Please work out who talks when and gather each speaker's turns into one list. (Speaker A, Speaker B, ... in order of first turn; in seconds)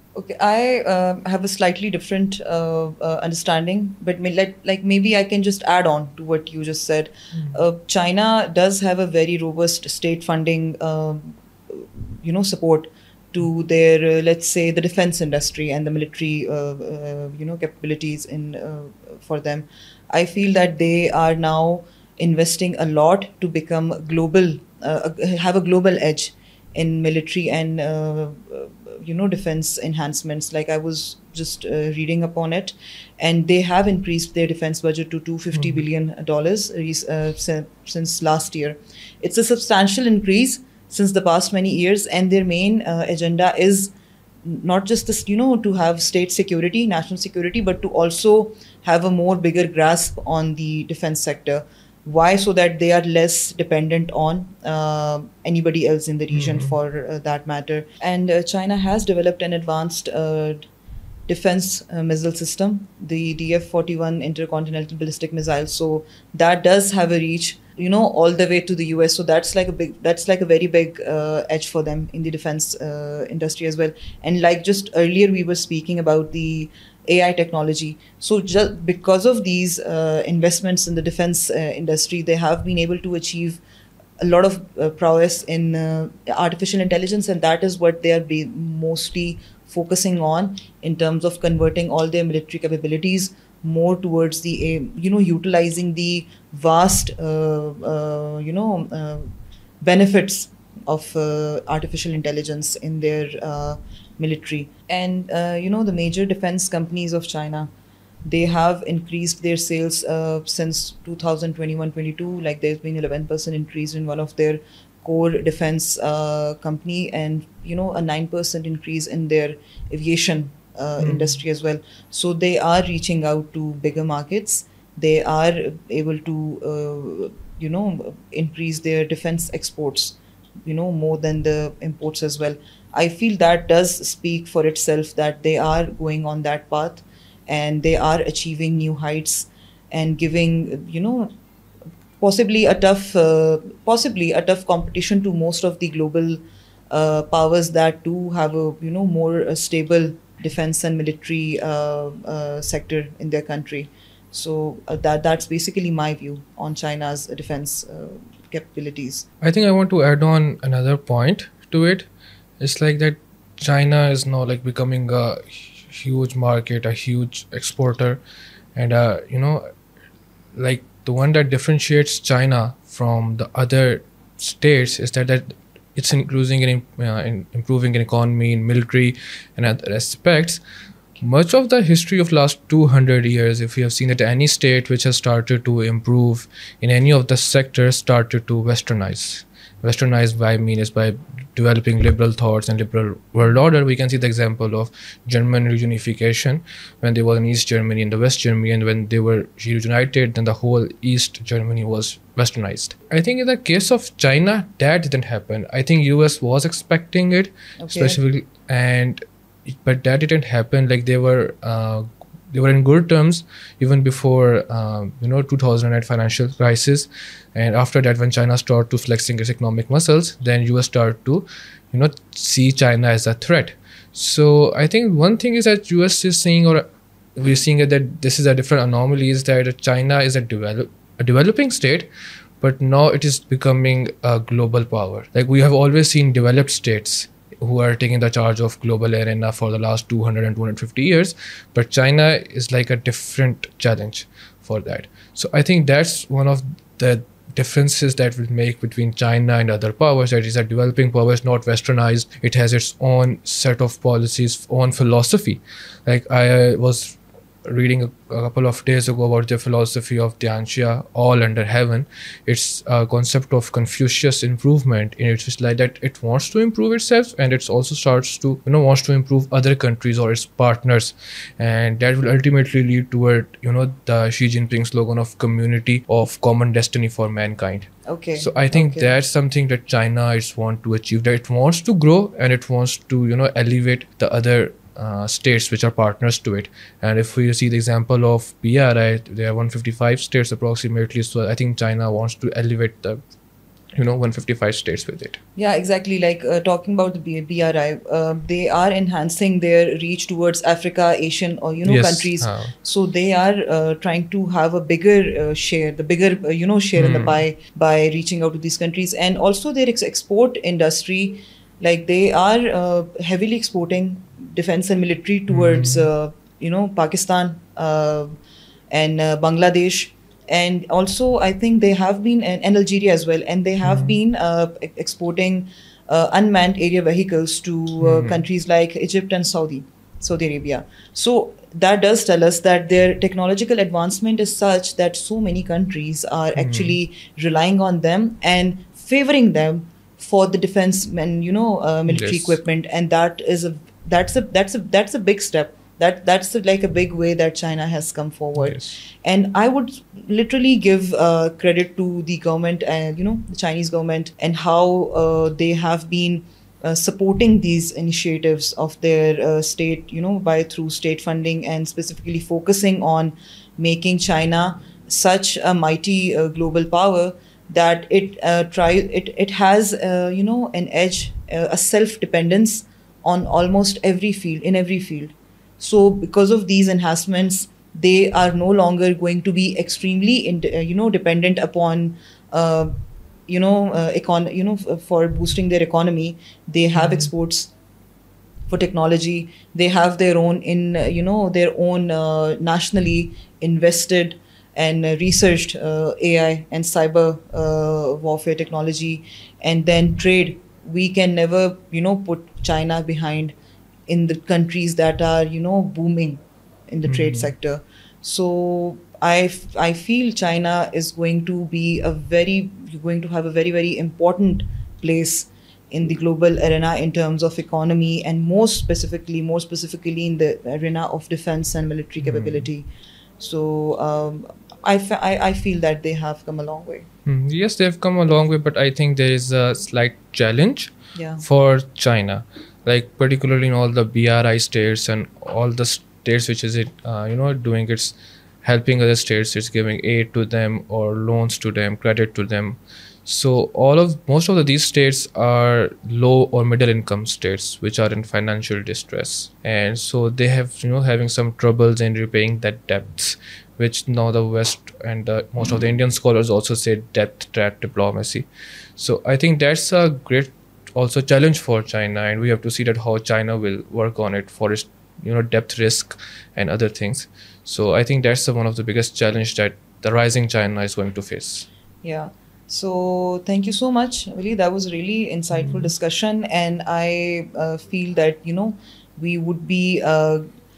Speaker A: 0.1-43.9, 44.4-60.7, 61.3-83.6, 84.2-107.7, 108.2-141.3, 142.2-159.2, 207.8-208.2, 278.1-279.1, 295.6-318.3, 318.9-382.9, 383.5-387.7, 388.7-403.5, 404.1-422.9, 423.4-427.1, 431.1-431.4, 472.0-480.4
Speaker B: 35.5-35.8, 56.3-56.8, 121.0-121.4, 159.4-162.1, 162.6-168.2, 168.8-169.7, 170.6-180.6, 181.2-232.1, 232.6-293.2, 293.9-295.4, 301.8-302.7, 307.0-307.4, 315.5-316.1, 323.8-324.2, 328.0-328.4, 336.6-337.0, 342.1-342.6, 348.6-349.0, 387.0-387.3, 407.1-407.5, 422.2-422.7, 427.2-471.7, 475.6-475.9